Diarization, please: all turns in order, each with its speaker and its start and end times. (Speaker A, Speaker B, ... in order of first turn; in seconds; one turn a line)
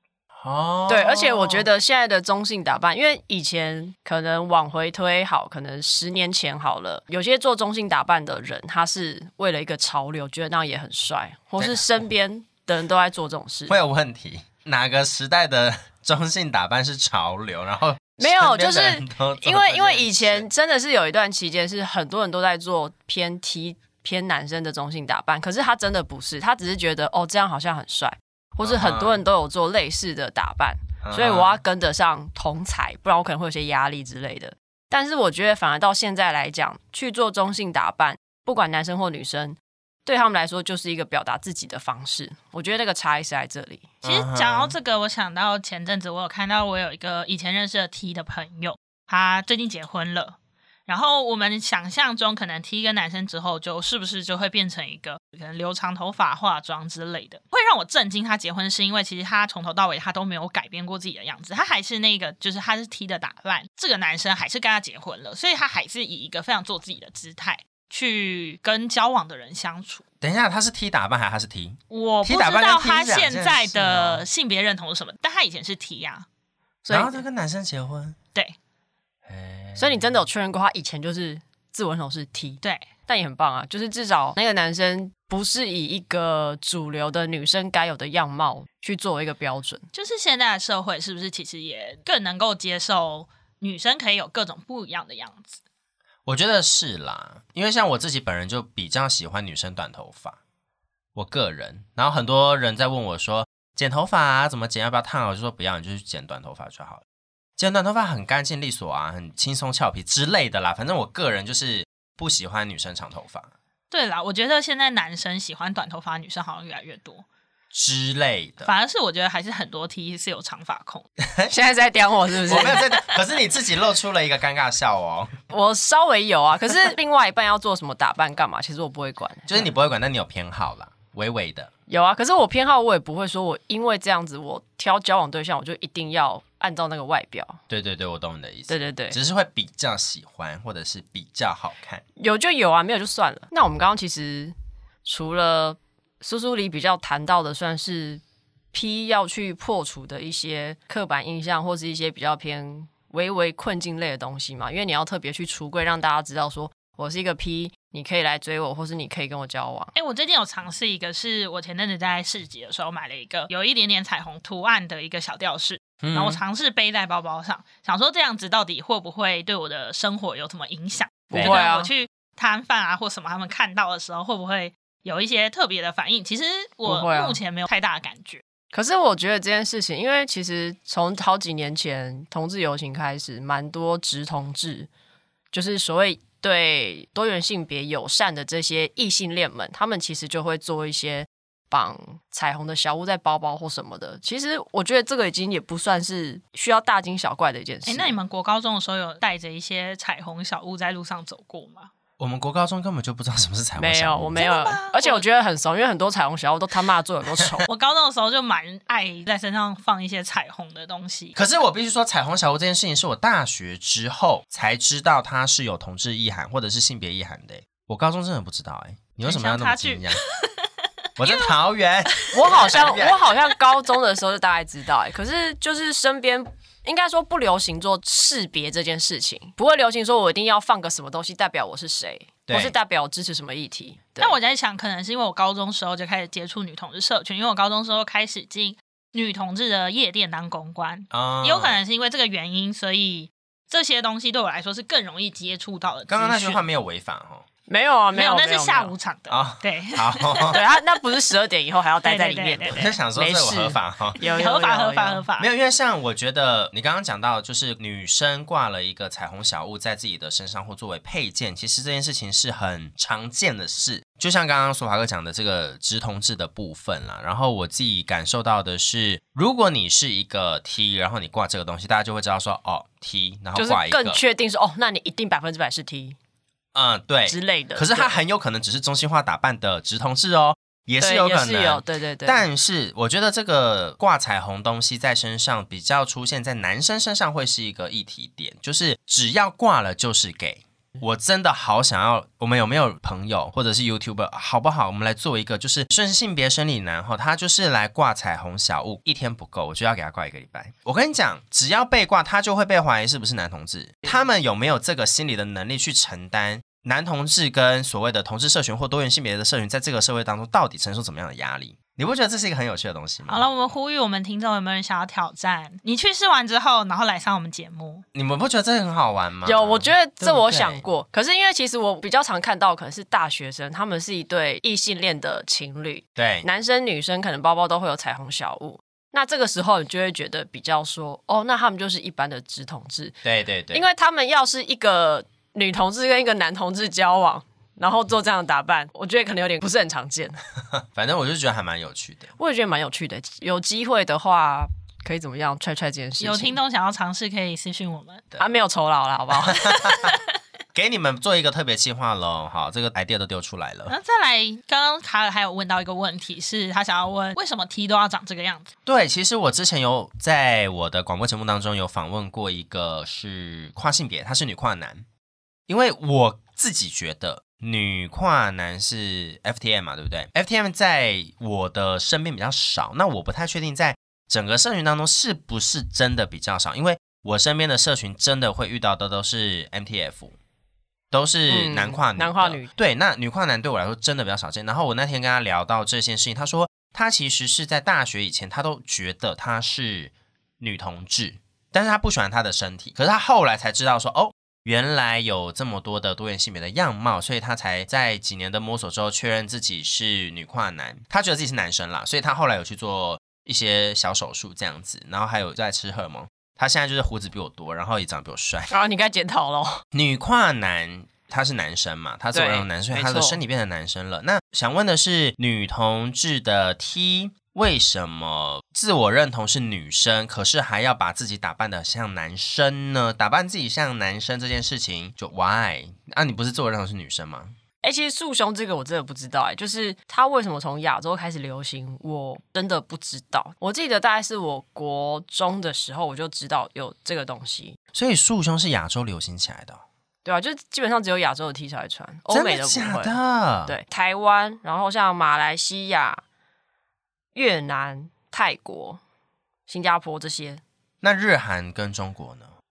Speaker A: 0.4-1.7
Speaker B: 0.9-13.7
Speaker A: 11.6-11.8
Speaker A: 13.7-20.4
Speaker B: 18.2-43.9
Speaker A: 28.6-29.2
Speaker A: 31.0-31.6
Speaker A: 44.0-44.8
Speaker C: 44.0-70.0
Speaker A: 70.2-74.2
Speaker C: 71.9-76.2
Speaker B: 76.8-77.2
Speaker A: 76.9-78.2
Speaker A: 79.2-80.0
Speaker B: 79.8-89.8
Speaker C: 89.9-95.6
Speaker A: 96.2-100.4
Speaker A: 101.1-107.0
Speaker A: 107.6-113.5
Speaker C: 113.9-117.2
Speaker A: 117.7-118.7
Speaker C: 118.6-121.0
Speaker A: 121.2-121.5
Speaker B: 121.5-122.8
Speaker A: 122.5-125.3
Speaker B: 125.5-129.7
Speaker A: 129.5-131.7
Speaker B: 131.9-137.6
Speaker A: 137.7-142.0
Speaker B: 138.7-139.2
Speaker B: 142.2-148.2
Speaker B: 148.7-159.9
Speaker C: 159.9-178.4
Speaker A: 166.0-166.4
Speaker B: 171.3-171.9
Speaker A: 171.3-171.6
Speaker B: 176.8-177.4
Speaker B: 178.7-184.9
Speaker B: 185.5-198.2
Speaker C: 197.8-201.9
Speaker A: 202.2-204.4
Speaker B: 203.8-207.7
Speaker C: 204.3-205.2
Speaker C: 207.7-211.3
Speaker A: 211.3-220.2
Speaker C: 219.2-220.7
Speaker A: 221.2-223.2
Speaker C: 221.2-221.6
Speaker C: 222.1-222.6
Speaker B: 222.3-234.3
Speaker A: 232.5-232.7
Speaker C: 234.2-246.6
Speaker A: 241.1-241.8
Speaker A: 246.1-247.4
Speaker B: 247.7-248.9
Speaker C: 248.1-250.6
Speaker A: 249.3-250.6
Speaker B: 250.5-255.2
Speaker C: 252.0-252.9
Speaker A: 252.7-254.2
Speaker C: 254.2-255.5
Speaker A: 255.4-274.2
Speaker B: 273.5-276.2
Speaker A: 276.7-313.4
Speaker B: 277.3-278.1
Speaker B: 281.0-282.4
Speaker C: 313.3-318.0
Speaker A: 318.1-320.8
Speaker B: 319.4-333.1
Speaker A: 326.2-326.4
Speaker A: 333.2-333.9
Speaker B: 333.7-340.4
Speaker A: 340.7-342.3
Speaker B: 342.4-346.6
Speaker C: 346.2-348.2
Speaker B: 348.4-349.8
Speaker A: 349.4-350.2
Speaker A: 350.7-353.9
Speaker C: 353.9-358.7
Speaker A: 358.9-365.0
Speaker A: 365.7-380.3
Speaker A: 381.1-408.7
Speaker B: 381.5-382.7
Speaker B: 408.7-409.8
Speaker A: 409.9-427.5
Speaker B: 412.3-413.4
Speaker B: 427.8-437.8
Speaker A: 437.9-439.8
Speaker B: 440.2-446.2
Speaker A: 442.3-443.8
Speaker B: 447.3-449.0
Speaker B: 449.7-450.6
Speaker A: 451.0-452.5